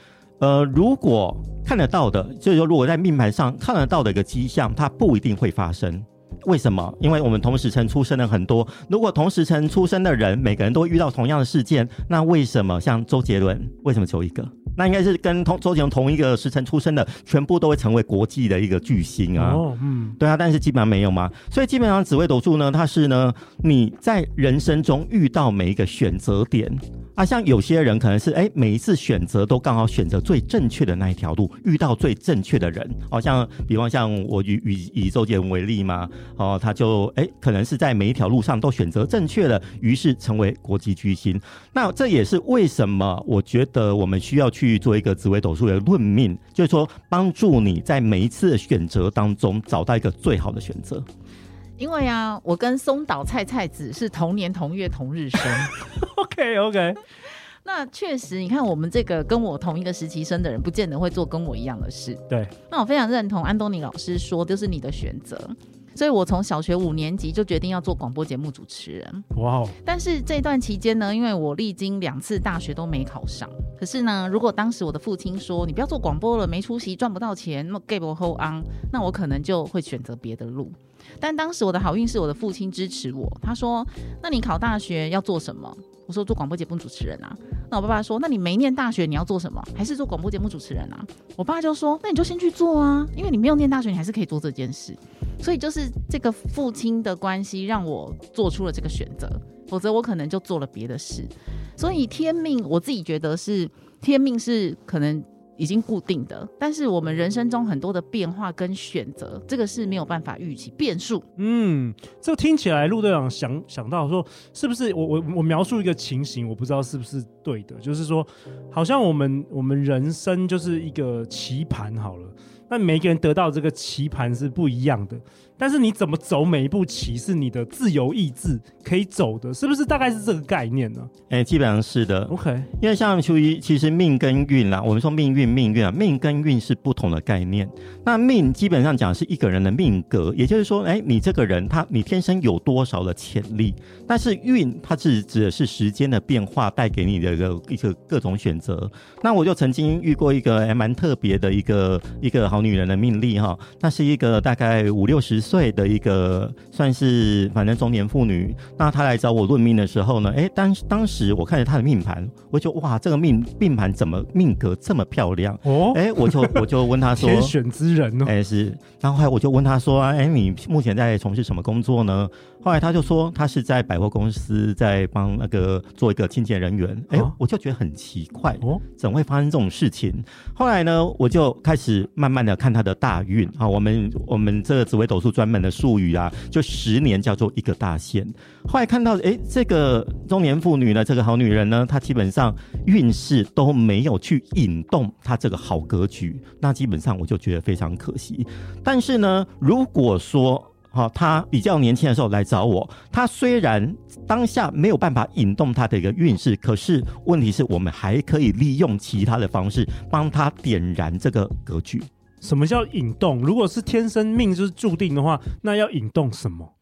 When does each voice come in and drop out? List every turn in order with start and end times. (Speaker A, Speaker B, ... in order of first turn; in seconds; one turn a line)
Speaker A: 0.4-19.6
Speaker B: 19.4-20.2
Speaker A: 20.2-51.0
Speaker C: 51.8-55.7
Speaker B: 55.7-57.0
Speaker C: 57.6-69.2
Speaker B: 69.3-69.8
Speaker C: 69.8-111.2
Speaker B: 111.4-131.1
Speaker A: 131.3-167.6
Speaker B: 132.3-132.7
Speaker B: 165.6-168.3
Speaker A: 168.2-212.1
Speaker B: 212.4-216.7